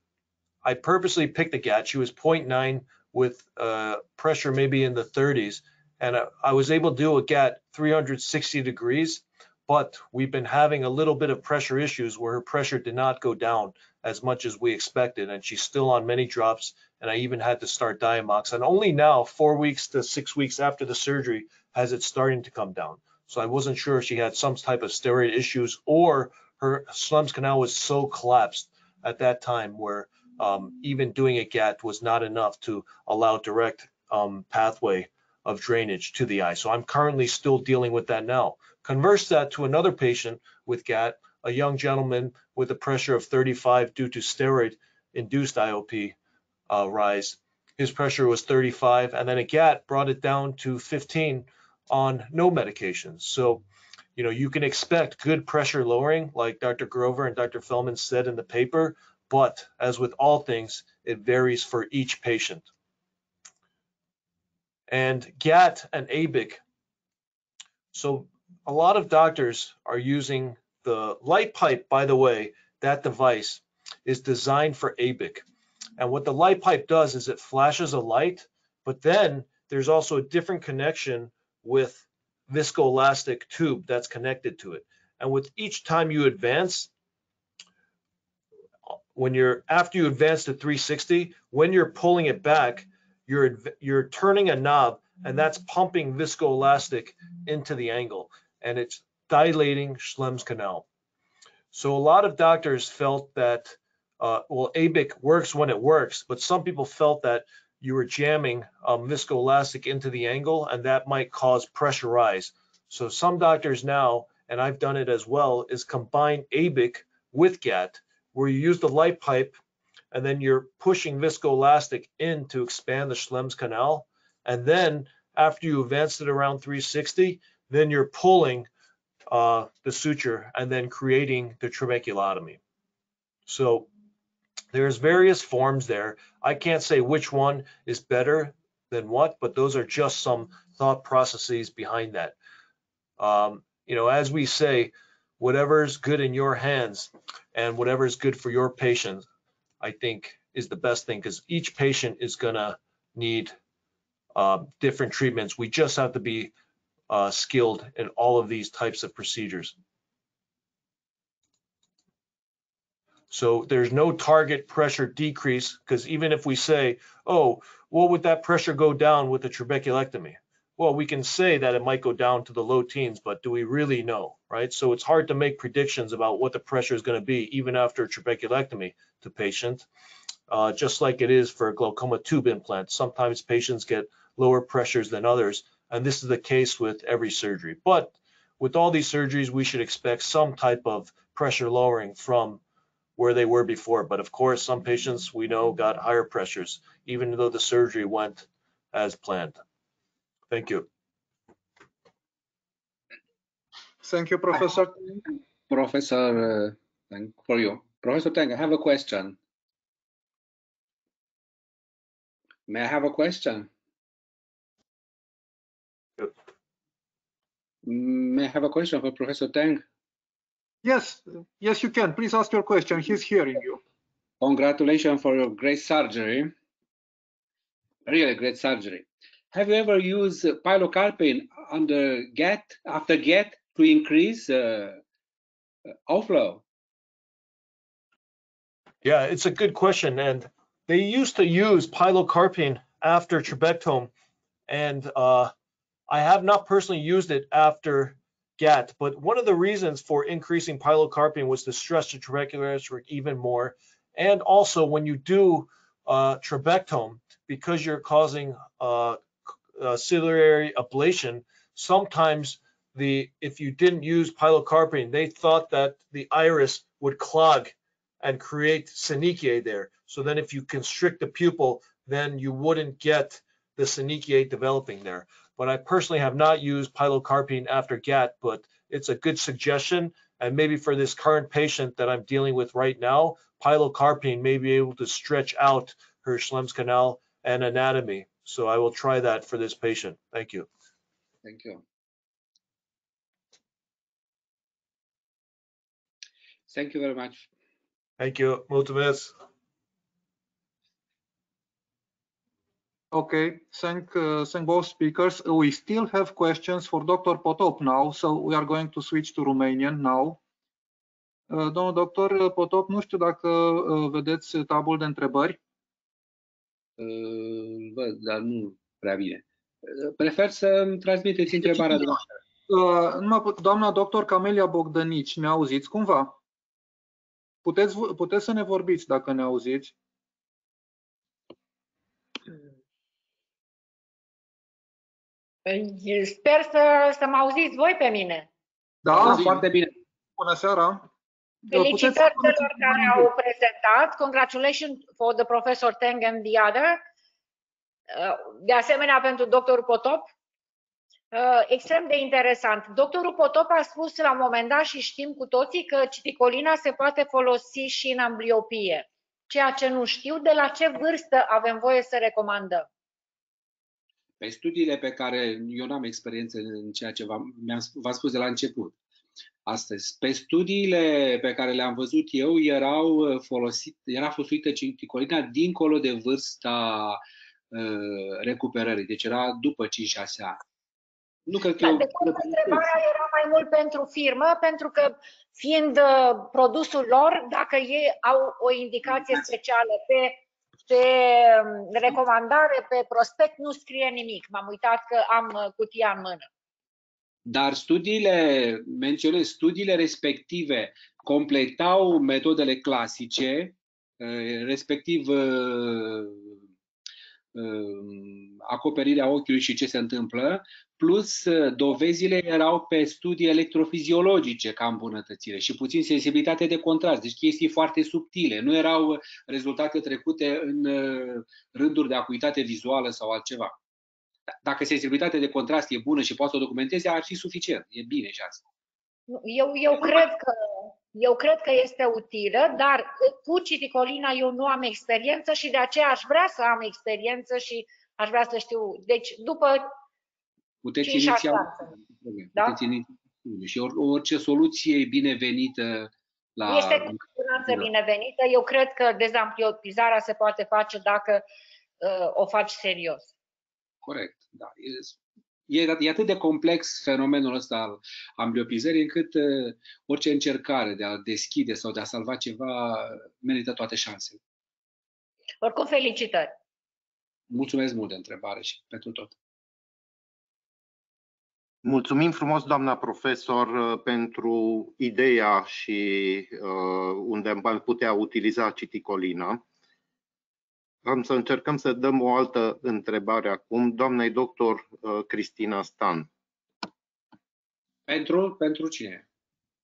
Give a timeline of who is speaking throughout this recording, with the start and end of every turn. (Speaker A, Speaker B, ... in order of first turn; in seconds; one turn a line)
Speaker A: 0.6-46.1
Speaker A: 46.7-53.6
Speaker A: 54.1-62.7
Speaker A: 64.9-66.6
Speaker A: 67.9-75.4
Speaker A: 76.0-86.9
Speaker A: 89.1-100.8
Speaker A: 101.7-119.5
Speaker A: 120.1-128.7
Speaker A: 129.3-132.6
Speaker A: 133.5-133.9
Speaker A: 134.7-142.3
Speaker A: 143.2-149.2
Speaker A: 149.8-153.5
Speaker A: 154.3-156.5
Speaker A: 157.1-159.7
Speaker A: 163.3-179.9
Speaker A: 180.5-192.6
Speaker A: 193.2-199.6
Speaker A: 200.5-200.9
Speaker B: 204.0-205.2
Speaker C: 205.7-209.4
Speaker C: 212.7-213.7
Speaker C: 217.8-219.8
Speaker B: 220.8-223.8
Speaker C: 224.4-226.5
Speaker C: 228.1-235.0
Speaker C: 236.1-236.6
Speaker A: 239.0-244.1
Speaker A: 244.7-245.5
Speaker A: 246.1-259.2
Speaker A: 259.8-290.7
Speaker C: 291.4-291.8
Speaker C: 296.7-297.4
Speaker A: 298.2-299.3
Speaker B: 303.1-310.4
Speaker B: 311.5-315.6
Speaker C: 317.0-322.2
Speaker B: 322.7-326.4
Speaker B: 327.6-329.9
Speaker D: 335.6-338.5
Speaker B: 339.0-339.8
Speaker C: 339.1-339.9
Speaker B: 340.4-341.1
Speaker D: 341.7-347.0
Speaker B: 341.7-343.3
Speaker D: 348.1-350.3
Speaker D: 351.3-362.9
Speaker C: 364.4-368.9
Speaker C: 369.6-377.2
Speaker C: 377.7-380.6
Speaker C: 381.5-382.9
Speaker D: 381.8-396.5
Speaker C: 397.4-406.5
Speaker C: 407.5-423.8
Speaker C: 424.6-428.6
Speaker D: 429.3-430.6
Speaker D: 431.1-439.9
Speaker C: 440.8-447.9
Speaker D: 441.0-441.9
Speaker D: 446.7-451.4
Speaker D: 452.0-453.3
Speaker C: 454.0-455.2
Speaker C: 455.7-464.4
Speaker D: 465.6-466.5
Speaker C: 467.5-469.3
Speaker E: 471.8-479.6
Speaker E: 481.0-486.3
Speaker C: 488.1-489.2